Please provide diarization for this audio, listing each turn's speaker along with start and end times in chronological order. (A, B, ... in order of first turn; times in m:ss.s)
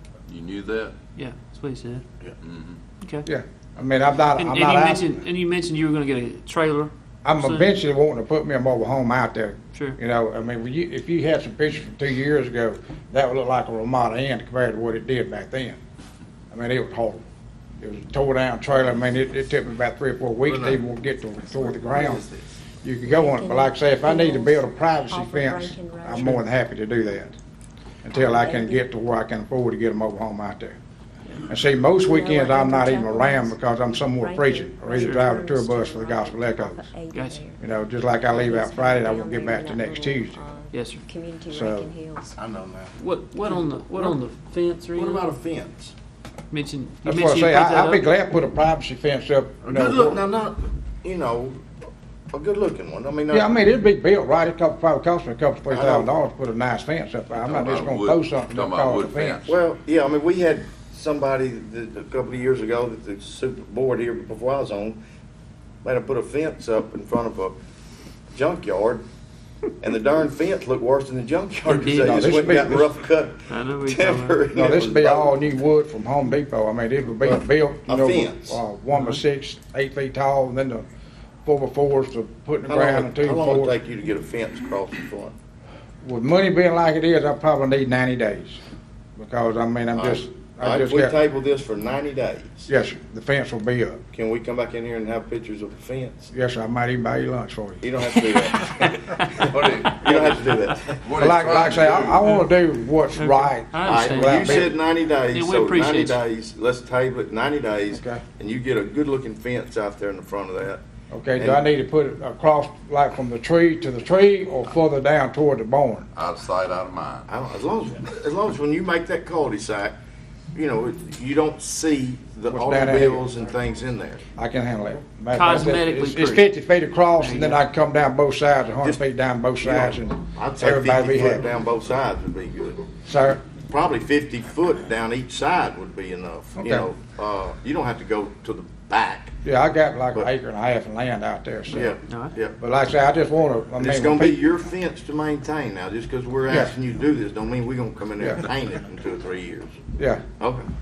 0:00.3-0:01.0 A
0:01.2-0:02.0 B
0:02.4-0:02.8 A
0:03.2-0:05.2 C
0:04.3-0:07.7 B
0:07.2-0:15.8 C
0:16.5-0:17.2 C
0:17.8-0:22.2 C
0:20.4-0:20.8 D
0:21.5-0:22.5 D
0:22.8-0:27.4 C
0:23.0-0:26.4 E
0:28.0-0:30.8 C
0:28.1-0:28.8 E
0:31.5-0:36.9 C
0:32.0-0:33.6 E
0:34.2-0:37.6 E
0:35.0-0:35.3 B
0:37.1-0:37.4 B
0:37.6-0:40.4 C
0:38.3-0:42.4 E
0:40.7-0:41.0 B
0:41.5-0:41.9 C
0:42.4-0:42.9 D
0:43.0-0:45.3 B
0:44.9-0:45.9 D
0:46.5-0:48.0 B
0:47.0-0:50.2 C
0:49.6-0:51.6 D
0:52.3-0:53.6 D
0:53.3-0:59.4 C
0:55.7-0:56.1 D
0:57.4-0:59.6 A
0:59.4-1:05.0 D
1:05.8-1:07.6 D
1:08.3-1:09.0 D
1:09.8-1:15.3 D
1:11.6-1:12.8 B
1:12.0-1:12.9 C
1:13.5-1:14.4 B
1:14.5-1:20.9 C
1:17.2-1:18.6 D
1:18.9-1:19.2 B
1:21.4-1:23.7 C
1:22.7-1:25.3 D
1:26.0-1:28.6 C
1:29.2-1:31.2 C
1:29.9-1:32.7 D
1:32.7-1:34.0 C
1:34.1-1:36.3 D
1:36.3-1:37.9 C
1:37.8-1:41.1 D
1:39.4-1:42.2 A
1:41.2-1:44.7 C
1:43.1-1:44.8 B
1:43.8-1:50.8 D
1:45.3-1:46.2 B
1:47.9-1:48.2 C
1:51.1-1:56.1 C
1:51.4-1:51.6 D
1:56.1-1:57.3 A
1:57.3-2:00.0 D
2:00.5-2:04.2 D
2:02.5-2:03.3 C
2:04.4-2:11.5 C
2:05.3-2:06.5 B
2:07.2-2:07.6 B
2:09.6-2:12.9 D
2:13.0-2:13.4 C
2:13.7-2:19.4 D
2:16.6-2:16.9 C
2:19.4-2:21.9 C
2:21.7-2:22.6 D
2:22.6-2:24.4 C
2:23.8-2:29.8 D
2:26.5-2:26.8 C
2:28.2-2:28.4 C
2:30.0-2:30.2 C
2:30.4-2:30.7 D